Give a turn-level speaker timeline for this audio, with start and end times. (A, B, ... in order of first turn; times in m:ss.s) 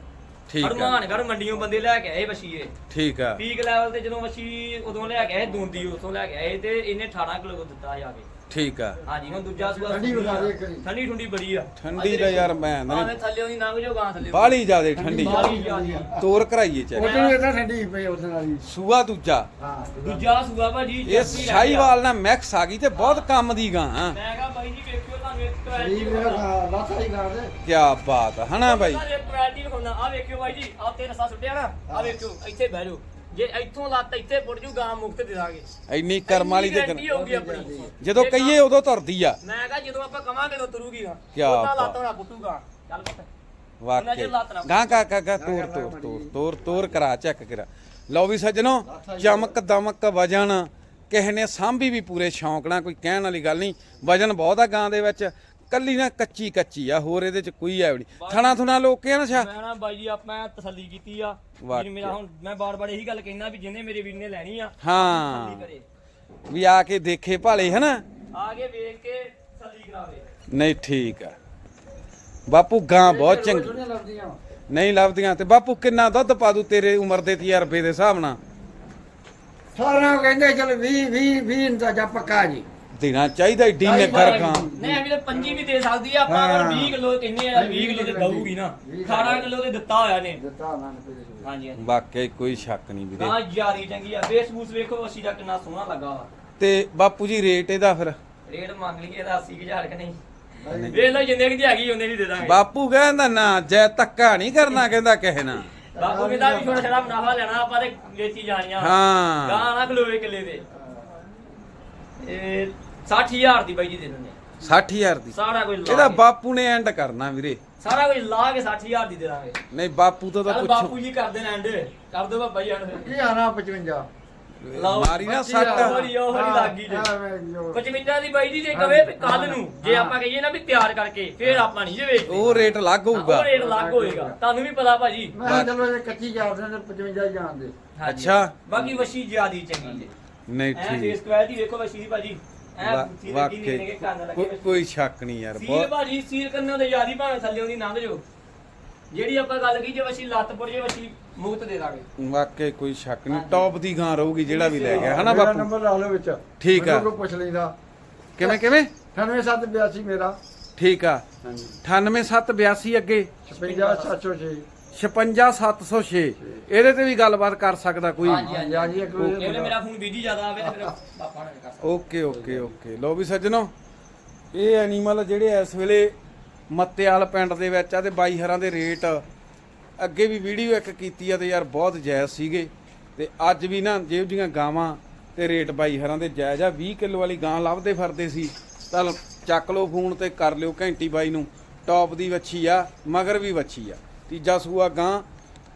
0:00.5-0:01.0 A
0:00.6-0:02.7 B
0:02.9-0:03.4 A
0:03.4-0:08.3 B
0:08.5-0:09.0 A
0:09.0-0:14.6 B
0:09.7-0:10.8 C
0:11.8-0:13.1 A
0:14.3-0:15.4 A
0:15.0-0:16.3 C
0:15.2-0:16.1 B
0:16.2-0:17.1 A
0:16.9-0:18.6 C
0:17.0-0:17.4 B
0:18.7-0:19.5 A
0:19.6-0:20.3 C
0:20.0-0:21.9 B
0:21.1-0:24.2 A
0:22.9-0:23.3 B
0:24.1-0:26.5 B
0:25.7-0:27.5 C
0:27.6-0:29.0 A
0:28.6-0:35.7 B
0:31.9-0:32.2 C
0:35.9-0:37.1 A
0:36.3-0:38.6 B
0:37.1-0:38.0 C
0:38.0-0:39.4 A
0:39.4-0:43.3 B
0:41.3-0:42.0 A
0:43.8-0:59.5 A
0:44.0-0:45.0 B
0:45.4-0:46.4 C
0:48.9-0:49.6 C
0:58.2-0:58.6 B
0:59.3-1:05.9 B
1:01.6-1:02.2 A
1:04.8-1:05.7 A
1:06.5-1:08.0 A
1:08.3-1:10.3 B
1:10.5-1:11.4 A
1:12.5-1:13.7 A
1:13.0-1:14.4 C
1:14.7-1:18.4 A
1:19.8-1:22.7 C
1:23.0-1:24.7 A
1:23.8-1:25.7 C
1:23.9-1:30.4 B
1:26.3-1:27.0 C
1:27.5-1:29.5 C
1:30.4-1:31.5 C
1:31.4-1:31.9 B
1:31.8-1:33.4 A
1:33.2-1:36.3 B
1:36.6-1:38.2 A
1:38.5-1:40.2 B
1:40.6-1:41.1 C
1:40.8-1:42.6 B
1:42.4-1:45.7 A
1:45.9-1:47.2 C
1:46.0-1:50.6 B
1:48.8-1:49.7 A
1:52.2-1:54.4 B
1:54.6-1:57.6 A
1:55.3-1:56.2 B
1:57.8-1:59.6 B
1:59.7-2:01.0 A
2:00.5-2:03.2 B
2:03.0-2:04.1 C
2:04.6-2:05.9 A
2:04.7-2:07.1 B
2:05.2-2:07.8 C
2:07.7-2:15.5 B
2:08.7-2:10.2 C
2:12.3-2:13.5 A
2:13.5-2:14.4 C
2:15.3-2:17.7 C
2:15.4-2:15.8 A
2:18.0-2:20.1 B
2:18.1-2:18.8 A
2:20.5-2:21.2 A
2:20.7-2:24.8 B
2:22.8-2:25.9 A
2:25.6-2:28.2 B
2:29.1-2:32.1 B
2:32.2-2:35.7 A
2:33.3-2:33.7 B
2:34.5-2:35.3 B
2:34.8-2:37.8 C
2:36.6-2:37.1 A
2:38.4-2:38.9 A
2:38.4-2:40.4 C
2:40.8-2:41.2 A
2:41.4-2:41.8 C
2:41.8-2:43.3 A
2:43.5-2:44.7 C
2:43.5-2:44.2 B
2:44.9-2:48.5 A
2:48.2-2:52.0 B
2:48.3-2:49.8 C
2:51.8-2:53.7 A
2:52.3-2:52.7 C
2:54.5-2:56.1 A
2:56.7-2:59.2 A
3:00.0-3:15.2 A